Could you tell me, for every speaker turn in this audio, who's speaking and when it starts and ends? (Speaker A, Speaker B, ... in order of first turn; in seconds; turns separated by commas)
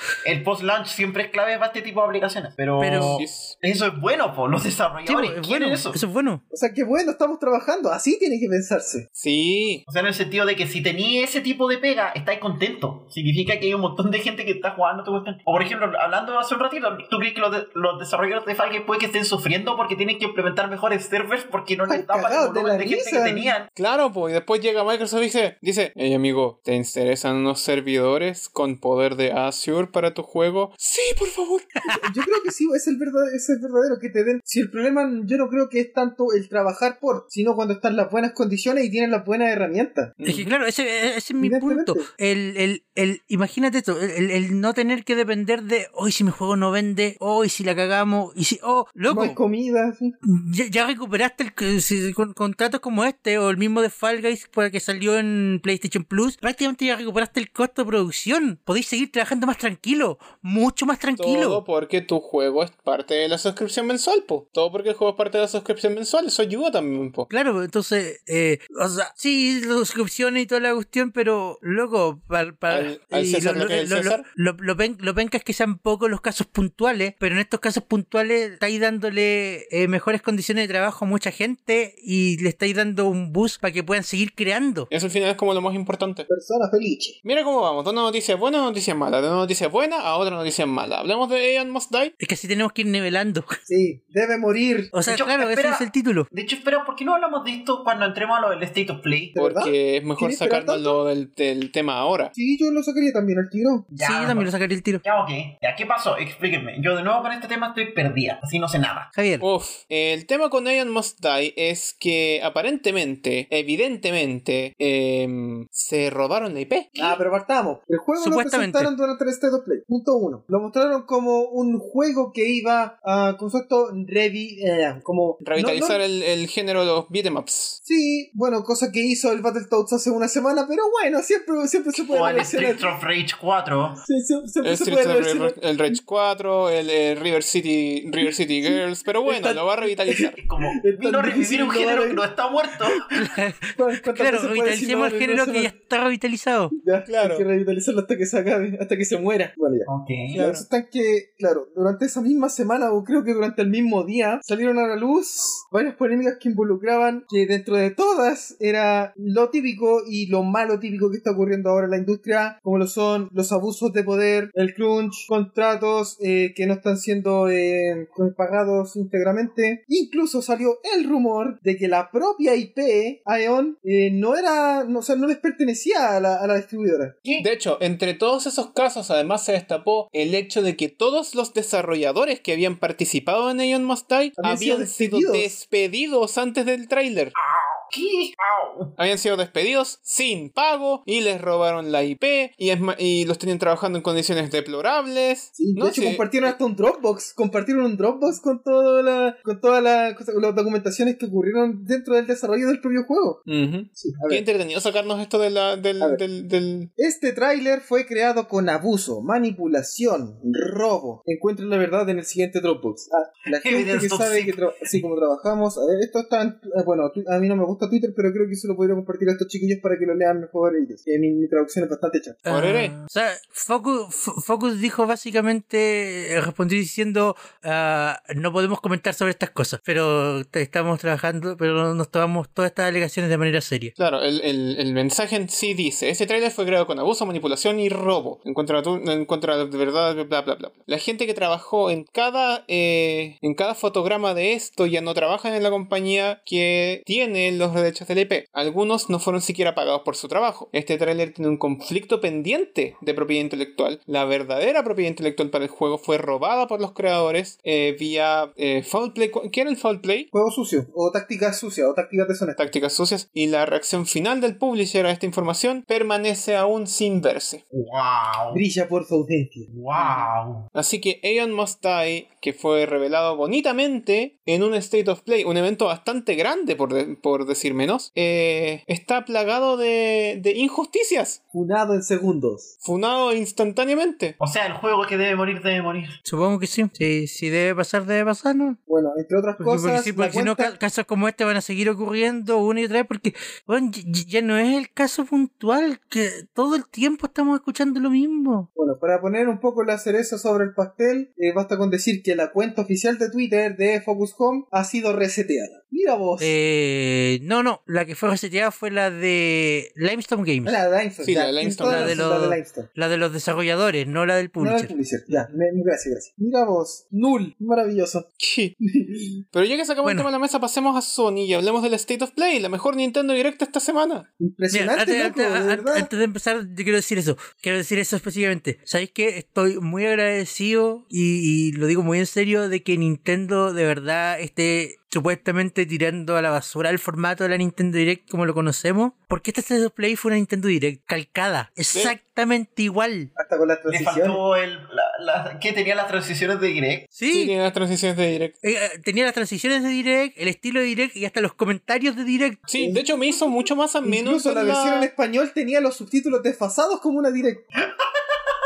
Speaker A: 0.2-6.0, Speaker B: 2.8-3.2, Speaker C: 3.0-3.5, Speaker B: 5.1-6.4, Speaker D: 6.5-9.1, Speaker C: 9.2-9.8, Speaker A: 9.9-23.7, Speaker D: 21.9-23.5, Speaker C: 23.8-31.7, Speaker D: 31.9-40.1, Speaker C: 40.2-40.5, Speaker B: 40.2-49.4, Speaker D: 41.4-42.1, Speaker D: 49.1-50.1, Speaker B: 50.2-61.6, Speaker C: 61.2-67.3, Speaker B: 67.3-84.9, Speaker C: 72.7-74.2, Speaker C: 84.9-86.3, Speaker D: 86.3-87.2, Speaker C: 87.2-92.1, Speaker B: 92.2-93.6, Speaker D: 93.7-94.9, Speaker B: 94.9-96.3, Speaker A: 95.1-99.4, Speaker D: 99.3-101.0, Speaker C: 99.4-102.3, Speaker D: 102.3-103.9, Speaker A: 103.9-104.5, Speaker B: 104.0-105.0, Speaker A: 105.0-109.1, Speaker B: 109.1-109.5, Speaker C: 109.4-116.9, Speaker D: 117.0-126.0, Speaker B: 118.2-118.9, Speaker C: 125.4-127.8, Speaker D: 127.8-132.8, Speaker A: 132.0-134.0, Speaker D: 134.0-136.0, Speaker C: 134.6-140.4, Speaker D: 138.6-142.2, Speaker A: 140.4-143.2, Speaker B: 143.2-146.7, Speaker D: 143.8-145.7, Speaker D: 146.7-177.2, Speaker C: 147.1-147.4, Speaker A: 149.9-150.5, Speaker C: 177.4-187.3, Speaker D: 184.4-185.5, Speaker A: 187.4-189.0, Speaker C: 189.0-196.6, Speaker D: 195.6-203.4, Speaker C: 203.5-206.9, Speaker D: 203.9-204.4, Speaker D: 207.0-222.4, Speaker A: 213.5-215.0, Speaker B: 222.5-233.9, Speaker C: 222.5-223.0, Speaker C: 234.0-260.3, Speaker D: 260.3-262.6, Speaker C: 262.6-267.6, Speaker A: 267.7-268.6, Speaker D: 268.5-269.7, Speaker A: 269.7-270.7, Speaker C: 269.9-281.4, Speaker D: 281.5-282.7, Speaker C: 282.8-284.4, Speaker A: 284.4-286.2, Speaker B: 286.3-288.8, Speaker D: 288.9-290.8, Speaker B: 289.6-298.7, Speaker D: 298.8-306.6, Speaker B: 306.4-310.8, Speaker D: 310.6-312.9, Speaker C: 311.2-312.2, Speaker B: 311.8-314.9, Speaker D: 314.6-318.3, Speaker C: 318.4-318.8, Speaker D: 318.9-319.4, Speaker C: 319.5-324.3, Speaker B: 320.0-320.3, Speaker D: 324.4-326.1, Speaker B: 324.7-343.3, Speaker D: 343.4-344.4, Speaker A: 343.9-347.1, Speaker B: 347.1-347.5, Speaker C: 347.3-348.6, Speaker B: 348.6-352.6, Speaker C: 352.7-355.1, Speaker D: 352.8-353.5, Speaker D: 354.0-357.6, Speaker A: 357.8-358.4